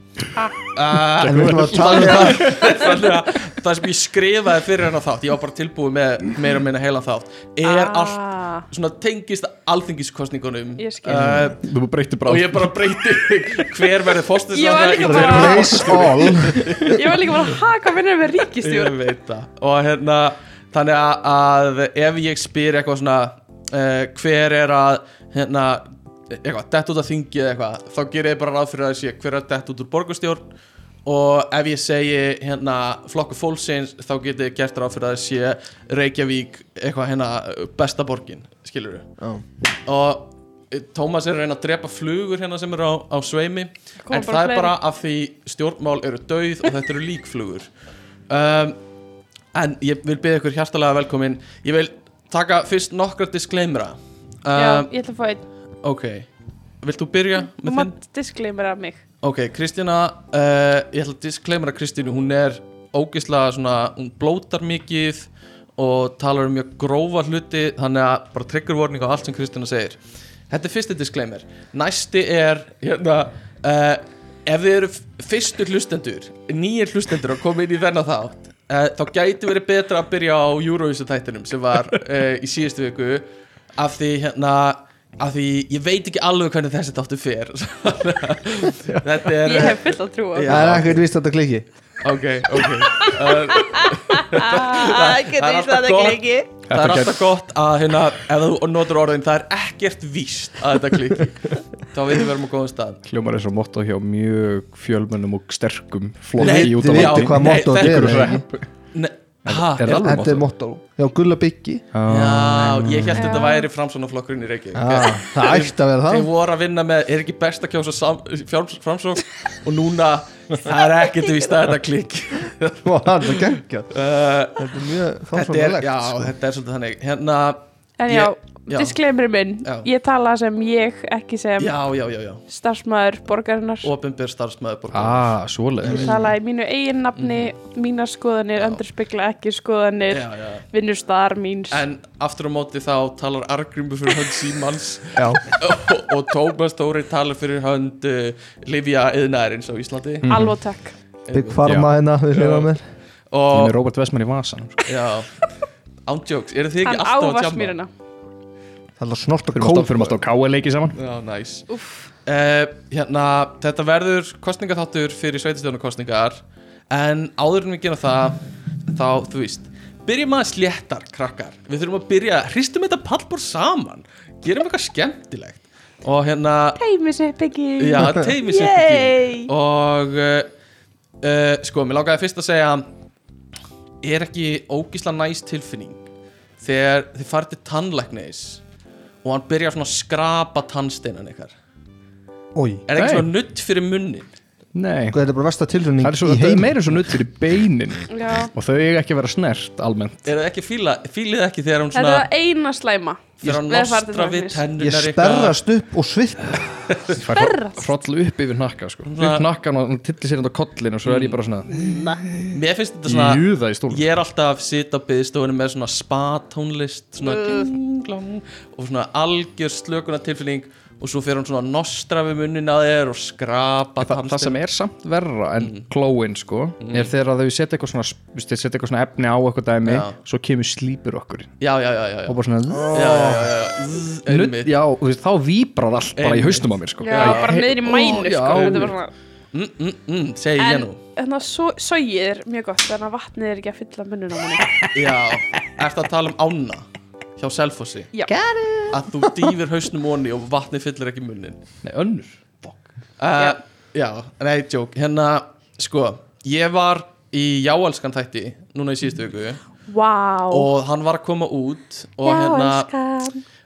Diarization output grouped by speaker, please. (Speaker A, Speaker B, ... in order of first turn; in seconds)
Speaker A: 0.7-11.6, 12.2-17.3, 18.6-30.4, 31.0-39.1, 39.8-47.7, 48.3-48.8, 49.5-54.9, 55.8-56.3, 56.8-57.9, 59.2-83.2, 83.8-91.0, 92.0-103.0, 106.4-108.3, 108.9-110.4, 112.1-123.4, 123.9-124.7, 125.3-129.0, 129.6-129.9, 131.6-132.4, 133.8-135.3, 137.2-137.5, 138.6-138.8, 140.1-140.6, 141.7-150.3, 151.2-152.7, 153.3-153.8, 154.8-155.4, 156.1-157.8, 160.9-161.7, 162.2-176.8, 177.8-180.5, 181.2-182.9, 184.0-186.0, 186.6-188.6, 189.2-191.5, 192.9-194.3, 200.2-202.2, 203.4-205.6, 206.9-207.2, 209.1-209.5, 211.0-211.4, 212.5-224.6, 225.6-225.9, 226.8-227.1, 229.8-230.2, 231.6-234.7, 236.2-237.6, 239.5-241.0, 244.9-246.8, 247.4-248.1, 248.9-251.6, 253.2-259.6, 260.5-262.9
Speaker B: 1.2-2.7, 15.0-17.0, 39.2-39.4, 90.5-91.6, 106.4-108.4, 109.8-111.9, 114.7-116.3, 122.8-124.0, 124.5-126.3, 135.8-136.3, 145.1-145.4, 151.3-152.8, 159.0-160.2, 192.5-192.8, 195.1-197.2, 204.8-206.9, 232.7-233.6
Speaker C: 1.2-2.7, 11.1-13.9, 15.4-16.6, 96.7-97.2, 103.0-108.7, 109.5-110.4, 111.9-113.4, 134.9-136.2, 150.2-150.6, 151.6-151.9, 153.5-154.8, 159.5-161.0, 192.9-193.3, 194.7-195.2, 196.0-200.2, 207.1-214.1, 224.0-231.5, 232.3-233.3, 234.2-238.9, 248.3-249.5, 251.8-252.8
Speaker D: 7.6-8.7, 10.8-11.4, 14.5-15.9, 16.7-19.0, 44.0-44.7, 54.5-55.4, 57.5-59.0, 89.4-90.7, 92.9-96.5, 113.1-113.7, 128.0-131.8, 132.5-133.9, 135.8-141.8, 150.2-150.9, 156.8-157.9, 161.7-162.1, 176.8-179.5, 198.1-198.5, 201.9-204.7, 207.3-207.9, 217.2-217.7, 237.0-239.1, 240.6-244.7, 259.9-260.7, 262.2-263.4